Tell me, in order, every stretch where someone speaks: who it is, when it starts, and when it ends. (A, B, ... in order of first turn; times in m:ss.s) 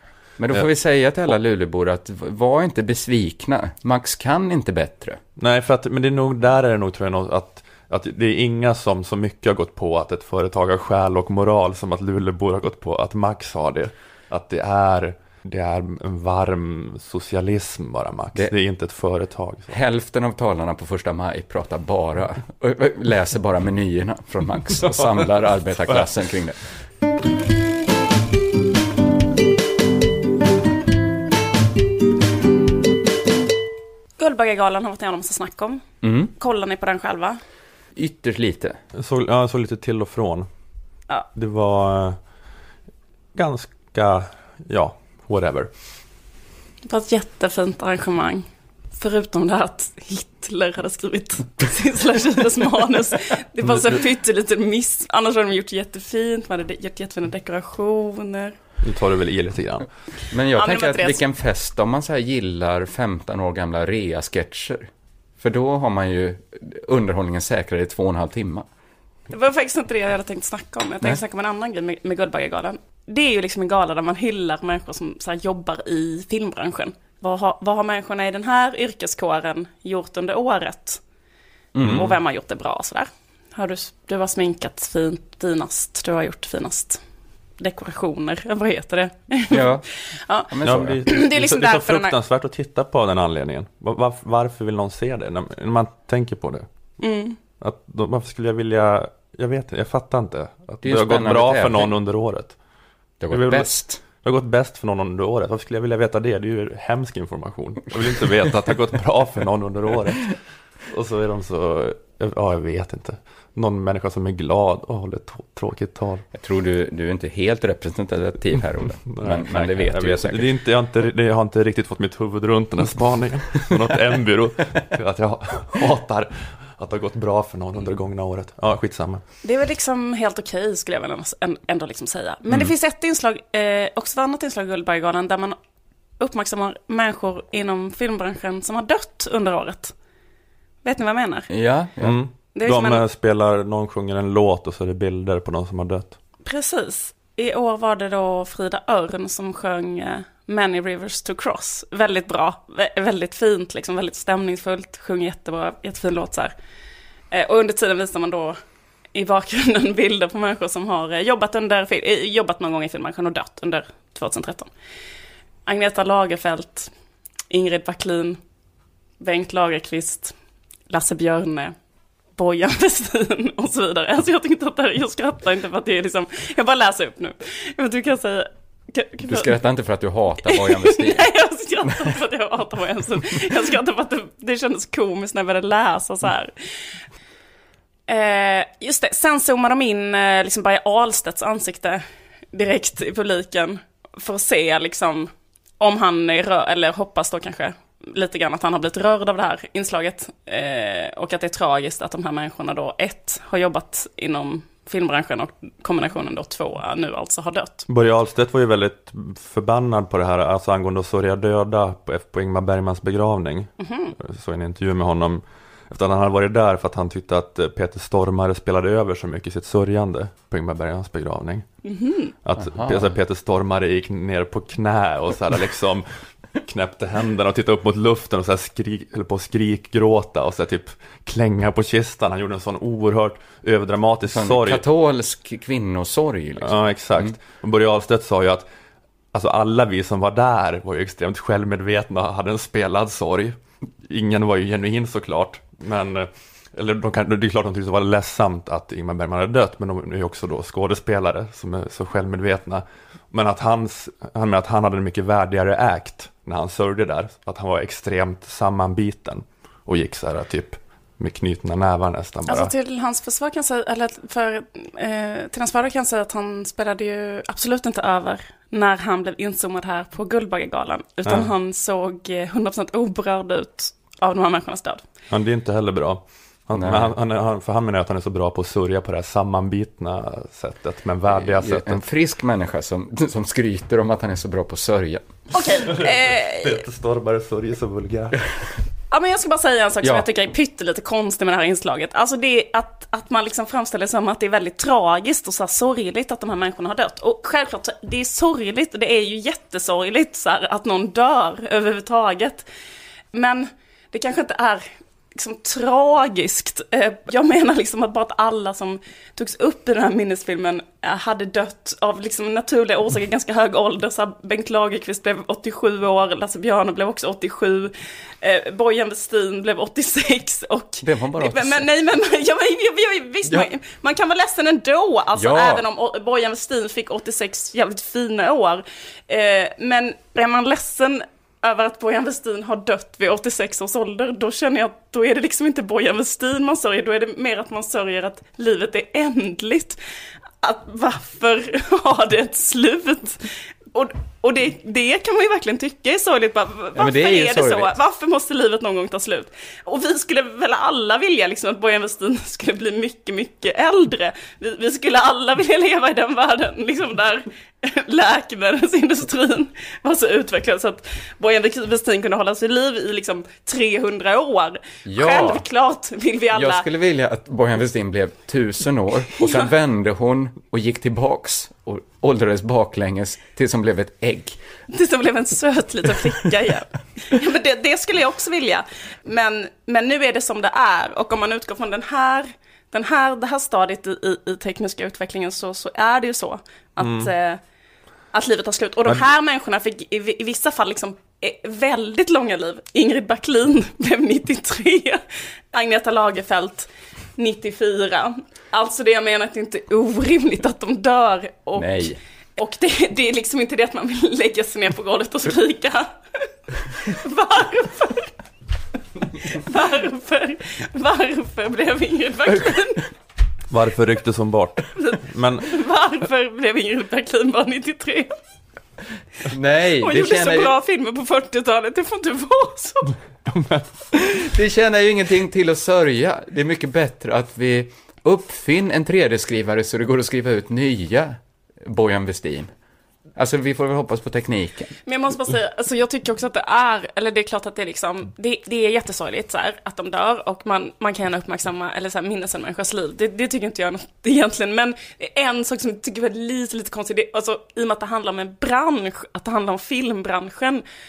0:00.4-0:05.2 A
0:05.4-0:19.8 B
0:19.7-0:26.6 A
0:34.2-0:35.8 C
0:36.0-0:36.3 A
0:36.4-0:37.4 C
0:38.0-0:38.8 A
0:39.0-0:40.5 B
0:41.4-0:42.2 B
0:43.4-0:45.7 B
0:46.9-0:58.6 C
0:58.8-0:59.9 B
1:00.3-1:08.7 A
1:00.6-1:01.2 C
1:09.3-1:21.0 C
1:21.7-1:22.1 A
1:21.8-1:22.1 B
1:21.9-1:27.0 C
1:27.6-1:29.7 C
1:29.5-1:29.9 A
1:30.2-1:30.5 C
1:30.5-1:31.0 A
1:30.6-1:36.7 B
1:31.0-1:32.2 C
1:37.0-1:37.4 C
1:37.6-1:42.6 B
1:40.8-1:42.0 A
1:43.2-1:44.0 A
1:43.3-1:50.4 B
1:50.9-1:56.2 B
1:56.4-2:00.5 A
1:59.1-2:09.2 B
2:09.4-2:15.6 C
2:16.2-2:20.0 C
2:20.8-2:21.5 C
2:21.5-2:22.2 A
2:22.0-2:26.2 B
2:22.6-2:23.0 C
2:26.5-2:36.5 C
2:37.3-2:38.6 C
2:39.1-2:44.7 C
2:45.7-2:46.9 C
2:47.5-2:48.4 C
2:49.2-2:50.4 C
2:50.9-2:51.7 C
2:52.4-2:59.6 C
2:59.3-3:01.3 A
3:00.4-3:06.6 C
3:08.1-3:27.9 C
3:27.9-3:41.6 B
3:33.8-3:34.2 C
3:41.8-3:42.3 C
3:42.4-3:46.1 B
3:42.6-3:43.0 A
3:46.6-3:54.8 B
3:54.3-3:57.3 A
3:56.6-3:58.7 B
3:59.3-4:22.7 B
4:22.5-4:35.0 C
4:35.3-4:42.1 B
4:36.8-4:37.1 A
4:41.3-4:45.2 A
4:45.5-4:46.8 C
4:45.9-4:48.4 B
4:49.1-5:02.7 C
5:03.3-5:40.0 C
5:21.0-5:21.9 A
5:25.4-5:25.8 A
5:40.6-6:06.9 C
5:47.0-5:47.9 A
6:05.0-6:05.6 A
6:06.5-6:14.6 A
6:09.4-6:09.7 C
6:14.9-6:27.6 C
6:27.0-6:27.3 B
6:28.3-6:35.2 C
6:35.7-6:46.5 C
6:41.8-6:42.2 A
6:47.0-6:48.3 C
6:49.4-6:53.0 C
6:53.7-6:55.7 B
6:55.0-6:58.3 C
6:59.4-7:00.7 A
7:00.0-7:03.2 C
7:03.5-7:03.8 B
7:04.2-7:12.7 A
7:13.4-7:14.9 A
7:15.1-7:30.8 C